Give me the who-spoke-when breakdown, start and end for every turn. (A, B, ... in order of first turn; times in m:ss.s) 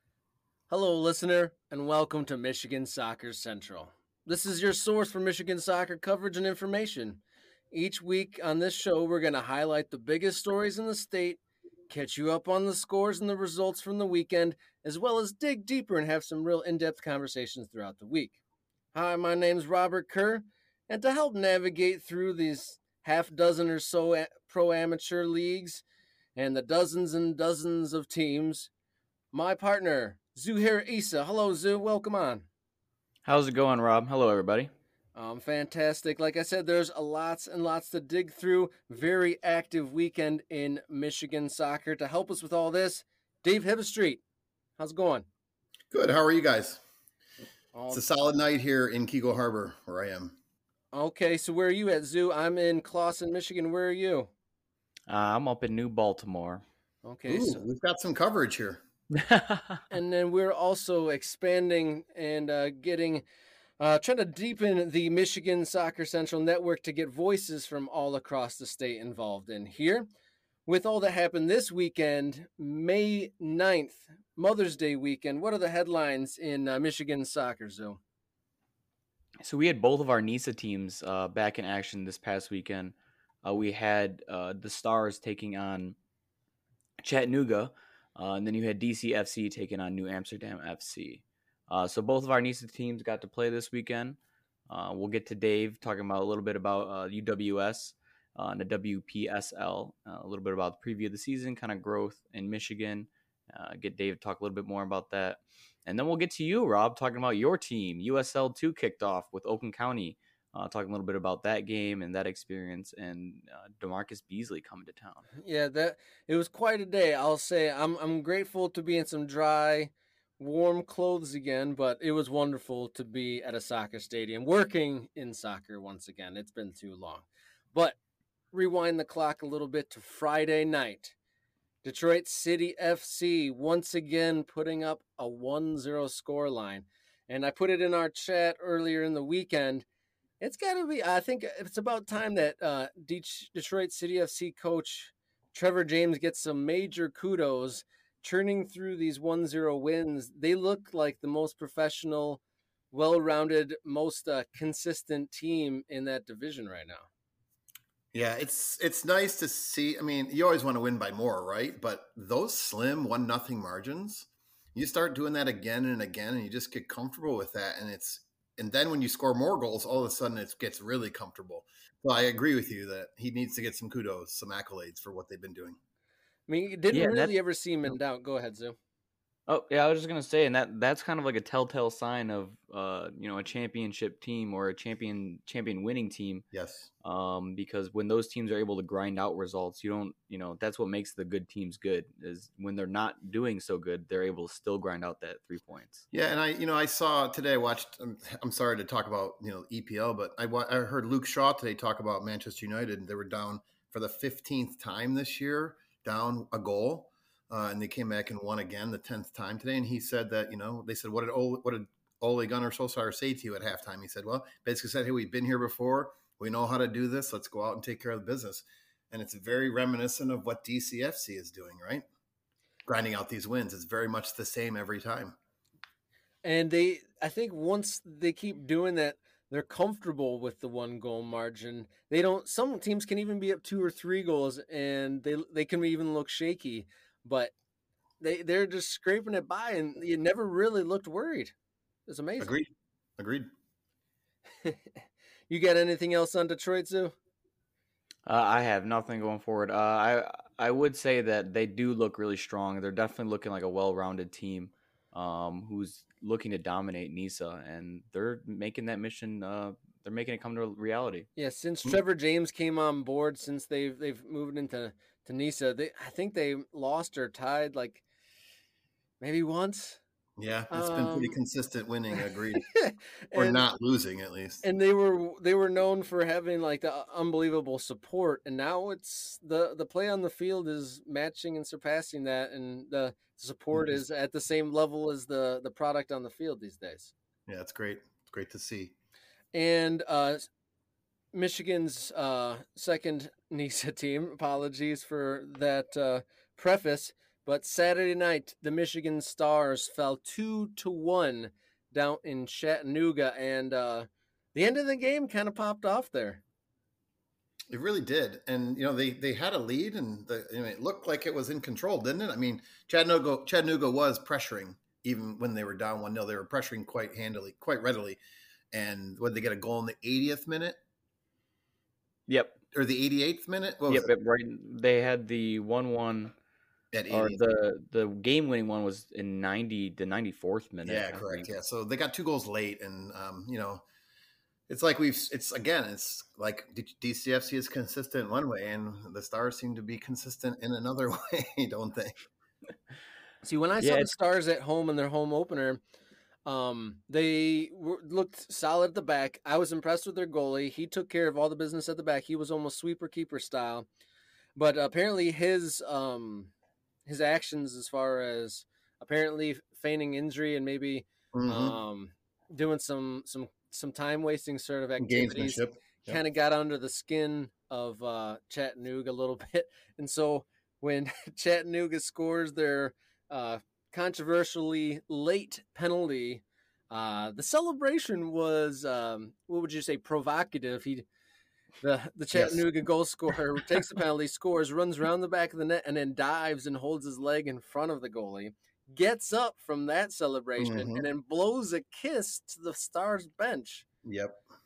0:00.7-0:07.2 A
0:07.7-0:18.4 A
0:18.9-0:25.8 A
0:26.4-0:28.7 A
0:29.3-0:32.4 A
0:33.2-0:34.7 B
0:35.1-0:44.2 A
0:44.8-0:45.2 A
0:45.9-0:46.8 C
0:47.7-0:48.0 A
0:47.9-0:50.4 C
0:50.9-0:54.3 A
0:55.1-0:56.6 B
0:57.0-0:57.6 A
0:57.3-0:58.8 C
0:59.1-0:59.8 B
0:59.9-1:03.2 A
1:03.8-1:10.1 A
1:10.6-1:18.0 A
1:19.4-1:26.0 B
1:27.0-1:34.2 B
1:34.7-1:55.3 B
1:55.4-2:08.0 A
2:08.5-2:11.1 A
2:11.8-2:19.8 A
2:20.4-2:37.1 A
2:38.1-2:55.8 C
2:56.5-2:58.8 A
2:56.9-2:57.3 B
2:59.5-3:06.4 B
3:06.5-3:06.9 C
3:07.0-3:16.0 B
3:16.1-3:42.0 C
3:42.8-3:45.4 C
3:46.4-3:57.5 A
3:58.2-4:01.5 A
4:02.1-4:02.5 A
4:02.4-4:03.5 C
4:04.6-4:05.0 A
4:05.5-4:07.1 A
4:08.2-4:21.3 B
4:21.4-4:28.0 A
4:29.2-4:30.0 A
4:30.4-4:32.6 C
4:30.7-4:31.4 A
4:32.2-4:33.7 A
4:33.3-4:34.6 C
4:34.6-4:47.1 A
4:47.5-4:48.9 C
4:49.5-4:50.5 A
4:51.3-5:06.4 A
5:07.7-5:18.2 C
5:18.7-5:20.8 C
5:22.3-5:22.6 B
5:22.7-5:24.1 C
5:23.9-5:26.3 B
5:26.9-5:27.4 C
5:27.1-5:31.5 B
5:30.8-5:33.8 C
5:34.7-5:42.2 C
5:43.4-5:45.8 A
5:43.8-5:44.1 B
5:46.4-5:53.9 A
5:54.6-5:56.5 A
5:57.0-6:21.0 A
6:01.3-6:01.8 C
6:05.0-6:06.2 C
6:21.8-6:33.8 A
6:22.3-6:22.6 C
6:30.6-6:31.0 C
6:34.0-6:34.4 C